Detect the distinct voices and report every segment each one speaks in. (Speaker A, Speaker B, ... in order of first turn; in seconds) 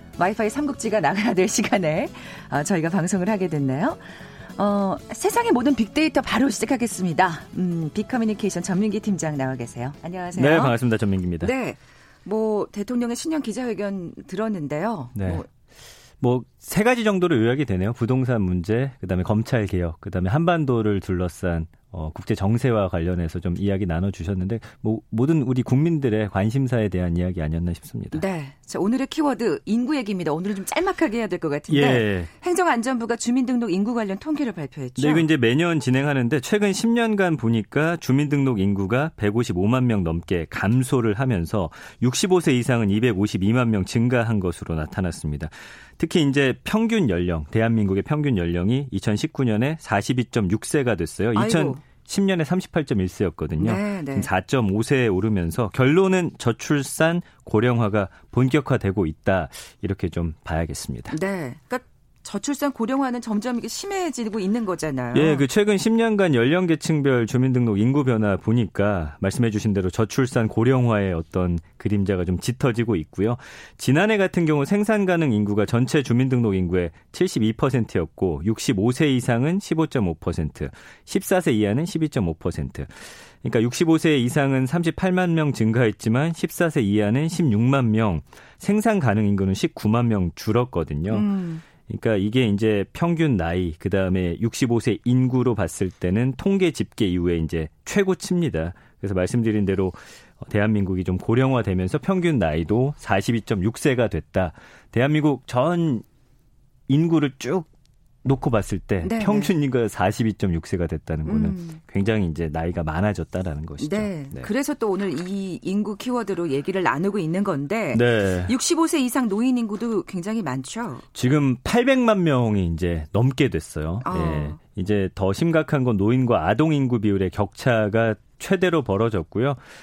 Speaker A: 0.2-10.8, 11.4-15.5, 28.1-35.3, 51.4-51.8, 53.6-54.3, 61.1-65.5, 91.1-91.6, 109.0-109.5, 111.2-111.8, 113.8-121.0, 124.0-124.6
Speaker B: 10.3-11.5, 15.2-15.4, 16.2-28.2, 31.7-32.3, 35.0-61.2, 65.1-91.3, 91.9-106.0, 106.9-107.7, 108.2-114.5, 117.9-118.5, 121.1-129.6